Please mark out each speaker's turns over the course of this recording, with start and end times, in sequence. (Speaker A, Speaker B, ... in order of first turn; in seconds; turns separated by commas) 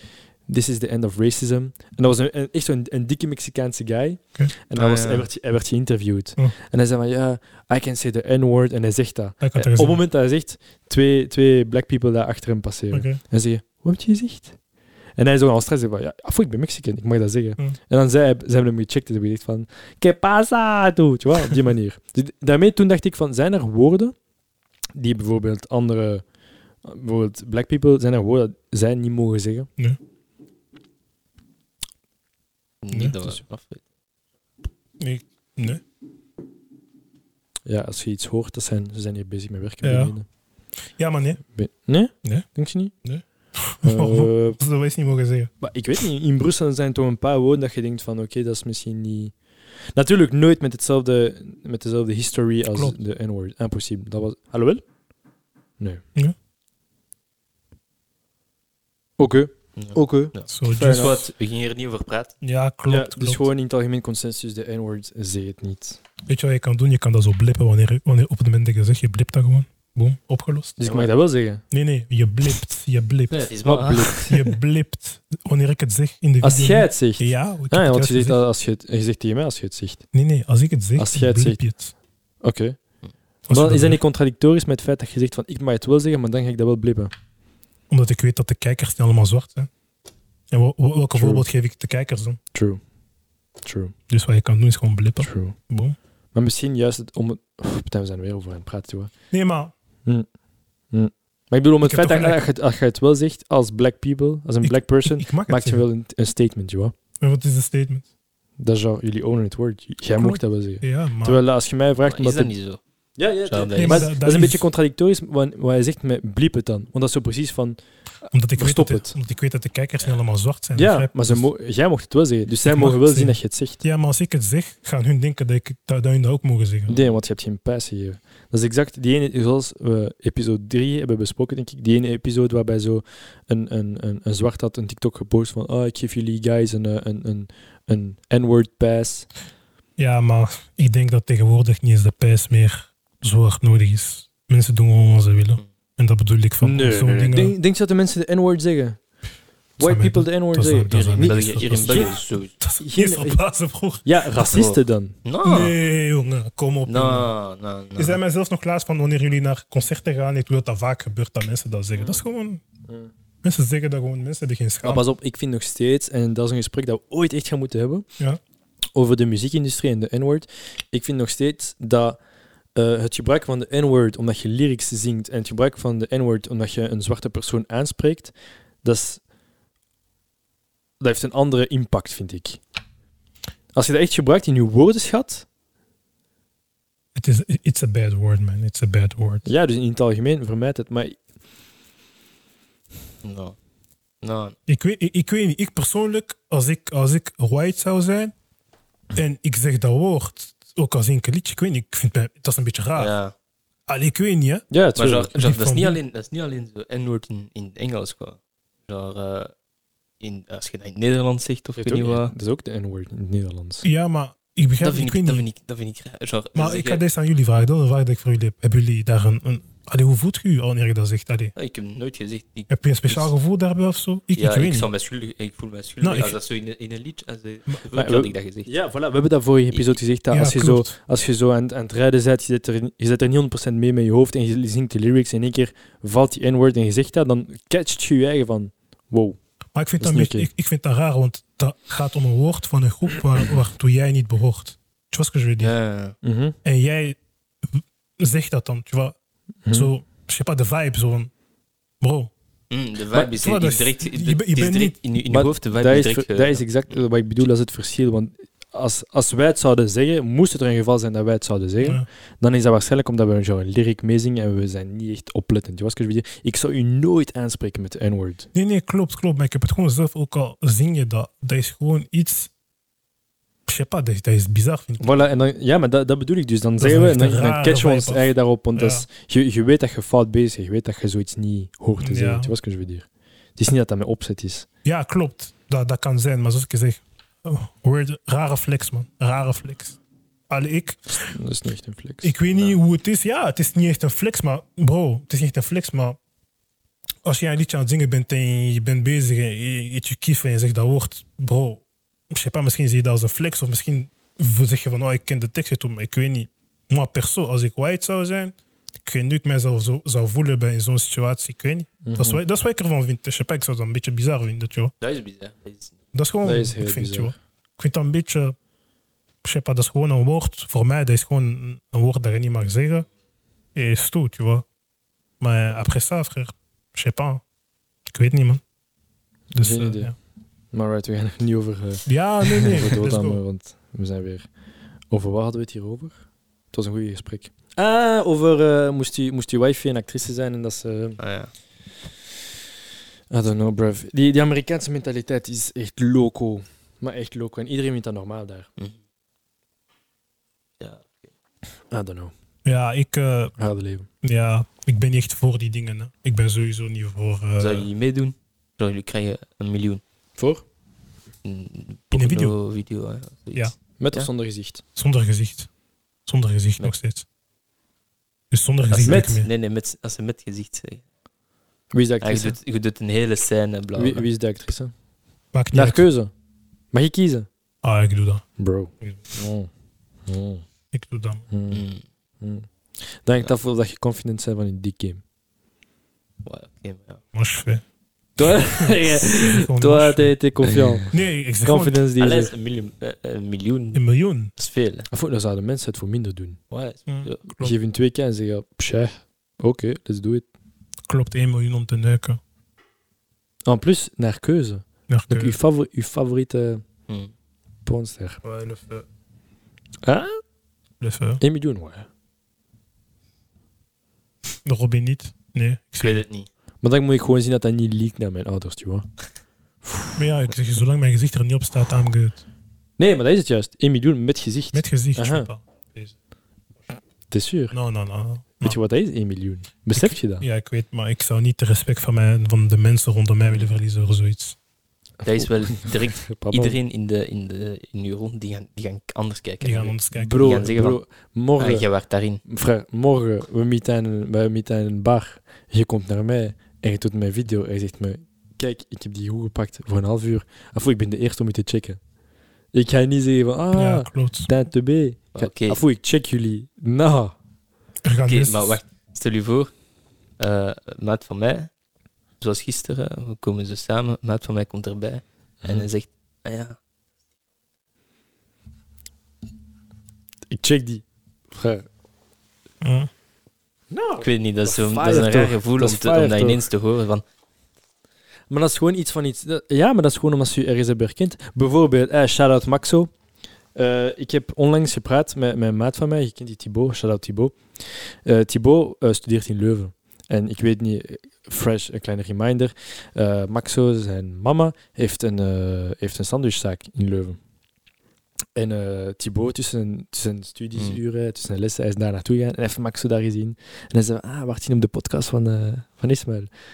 Speaker A: 0.5-14.6, Speaker B: 4.8-5.3, Speaker C: 9.4-10.0, Speaker C: 12.9-13.2, Speaker A: 15.2-24.1, Speaker A: 24.9-26.2, Speaker A: 26.8-29.7, Speaker B: 32.8-33.8, Speaker C: 32.9-33.3, Speaker C: 35.0-35.8, Speaker A: 37.7-40.3, Speaker C: 39.8-40.2, Speaker C: 41.0-41.4, Speaker A: 41.5-42.9, Speaker C: 43.0-45.5, Speaker A: 43.8-44.6, Speaker A: 45.6-49.4, Speaker A: 49.9-54.8, Speaker C: 52.7-53.0, Speaker A: 59.2-61.3, Speaker B: 59.8-62.3, Speaker C: 60.5-61.3, Speaker C: 62.4-63.5, Speaker A: 62.9-66.0, Speaker C: 66.3-70.8, Speaker A: 70.8-71.6, Speaker C: 71.7-73.5, Speaker B: 73.3-74.4, Speaker A: 73.6-74.4, Speaker C: 74.2-78.4, Speaker A: 76.4-80.0, Speaker C: 80.1-81.9, Speaker A: 81.0-81.6, Speaker A: 82.4-82.8, Speaker C: 83.5-84.0, Speaker A: 83.5-87.1, Speaker C: 87.9-89.7, Speaker C: 90.5-92.4, Speaker A: 91.1-91.5, Speaker A: 92.5-92.8, Speaker A: 93.6-94.0, Speaker C: 94.1-96.0, Speaker A: 95.2-95.6, Speaker A: 96.3-99.1, Speaker C: 99.3-99.7, Speaker A: 100.9-106.9, Speaker C: 101.8-102.4, Speaker C: 104.6-105.8, Speaker C: 107.2-108.1, Speaker A: 108.6-112.5, Speaker C: 110.1-111.4, Speaker B: 112.1-112.8, Speaker A: 113.2-117.8, Speaker B: 113.5-114.1, Speaker C: 113.8-114.7, Speaker C: 118.3-121.4, Speaker A: 118.5-119.2, Speaker A: 120.8-123.8, Speaker C: 122.7-126.9, Speaker A: 126.9-139.3, Speaker C: 140.0-147.6, Speaker A: 146.6-149.0, Speaker A: 149.8-152.2, Speaker C: 149.8-154.1, Speaker B: 150.9-152.5, Speaker A: 152.8-153.4, Speaker A: 154.0-155.2, Speaker B: 154.4-155.8, Speaker C: 155.4-157.3, Speaker B: 156.9-158.2, Speaker C: 158.0-162.6, Speaker C: 163.4-165.0, Speaker A: 164.8-168.1, Speaker A: 168.9-172.2, Speaker A: 172.8-179.2, Speaker A: 181.0-182.6, Speaker A: 183.7-185.5, Speaker C: 187.2-189.5, Speaker A: 189.4-191.2, Speaker B: 193.2-193.6, Speaker B: 194.2-194.6, Speaker C: 194.7-198.3, Speaker C: 199.2-203.1, Speaker B: 203.0-203.3, Speaker C: 203.9-204.7, Speaker A: 204.7-205.4, Speaker B: 205.0-209.5, Speaker C: 205.4-206.0, Speaker B: 210.2-212.3, Speaker A: 211.8-213.9, Speaker C: 213.8-215.5, Speaker B: 214.8-217.0, Speaker C: 216.6-221.5, Speaker B: 221.6-223.3, Speaker C: 222.7-224.9, Speaker B: 224.3-228.7, Speaker C: 226.0-226.4, Speaker A: 227.9-239.4, Speaker C: 230.3-230.9, Speaker C: 239.8-245.8, Speaker A: 240.0-240.5, Speaker B: 245.6-246.2, Speaker A: 246.2-246.6, Speaker C: 246.7-249.2, Speaker A: 249.7-249.9, Speaker C: 249.7-251.3, Speaker C: 252.0-252.3, Speaker B: 252.7-256.6, Speaker C: 253.3-255.0, Speaker A: 255.3-268.5, Speaker C: 261.8-262.1, Speaker C: 268.5-272.5, Speaker C: 273.7-275.1, Speaker A: 275.0-284.7, Speaker C: 276.8-279.1, Speaker C: 282.0-282.5, Speaker C: 284.8-290.0, Speaker C: 290.5-291.4, Speaker A: 291.2-292.7, Speaker C: 292.2-296.2, Speaker C: 297.2-314.9, Speaker A: 312.0-312.4, Speaker B: 315.0-316.0, Speaker C: 316.1-318.6, Speaker A: 316.4-317.3, Speaker C: 319.4-323.1, Speaker C: 323.8-324.6, Speaker C: 325.4-327.4, Speaker C: 328.1-328.6, Speaker C: 329.5-330.1, Speaker A: 329.6-330.1, Speaker A: 330.7-334.5, Speaker C: 332.1-333.4, Speaker A: 335.1-336.2, Speaker A: 336.7-341.2, Speaker B: 341.2-341.5, Speaker A: 343.3-348.7, Speaker B: 350.8-351.3, Speaker A: 351.9-352.3, Speaker C: 352.6-353.6, Speaker A: 353.6-354.1, Speaker C: 354.2-357.9, Speaker B: 357.6-360.0, Speaker A: 360.4-360.6, Speaker B: 361.4-364.3, Speaker C: 362.1-362.6, Speaker A: 364.0-364.8, Speaker C: 365.0-365.7, Speaker C: 366.3-367.3, Speaker C: 368.5-369.5, Speaker B: 368.9-371.0, Speaker A: 369.0-369.4, Speaker A: 371.9-372.6, Speaker B: 372.2-374.3, Speaker A: 374.0-374.9, Speaker C: 375.5-376.1, Speaker A: 375.7-376.3, Speaker A: 376.9-377.5, Speaker C: 377.8-378.4, Speaker A: 378.6-379.7, Speaker A: 380.3-380.6, Speaker C: 380.9-381.4, Speaker A: 381.5-381.9, Speaker B: 381.7-382.0, Speaker A: 382.4-385.2, Speaker B: 386.4-387.2, Speaker C: 387.3-387.8, Speaker A: 388.4-391.1, Speaker C: 388.5-390.4, Speaker B: 390.6-391.1, Speaker C: 391.1-392.0, Speaker A: 391.6-392.5, Speaker B: 392.2-394.0, Speaker C: 393.9-394.5, Speaker B: 394.6-395.1, Speaker A: 395.1-396.6, Speaker B: 396.7-397.5, Speaker C: 397.1-397.7, Speaker A: 397.6-400.5, Speaker C: 401.1-402.4, Speaker A: 403.6-406.8, Speaker C: 405.1-405.6, Speaker A: 407.9-408.4, Speaker C: 408.4-409.1, Speaker A: 410.0-410.4, Speaker C: 411.0-411.4, Speaker A: 411.4-412.1, Speaker C: 414.6-416.2, Speaker B: 416.0-416.5, Speaker A: 416.8-419.1, Speaker A: 419.9-420.2, Speaker C: 420.2-422.4, Speaker A: 423.0-425.5, Speaker C: 424.7-426.1, Speaker A: 427.3-427.8, Speaker C: 427.7-428.8, Speaker A: 428.6-430.4, Speaker C: 429.9-434.6, Speaker B: 435.2-441.0, Speaker A: 435.4-436.8, Speaker C: 439.6-440.7, Speaker A: 440.1-441.9, Speaker B: 441.6-442.4, Speaker A: 442.4-452.0, Speaker A: 452.7-457.4, Speaker C: 453.7-454.5, Speaker B: 455.4-455.8, Speaker C: 458.0-458.8, Speaker B: 458.3-459.7, Speaker B: 460.4-461.7, Speaker B: 462.4-466.8, Speaker A: 465.6-465.9, Speaker A: 470.5-471.9, Speaker C: 472.8-473.1, Speaker A: 473.9-476.6, Speaker B: 474.2-477.2, Speaker A: 478.5-483.1, Speaker A: 483.8-497.4, Speaker A: 498.6-506.5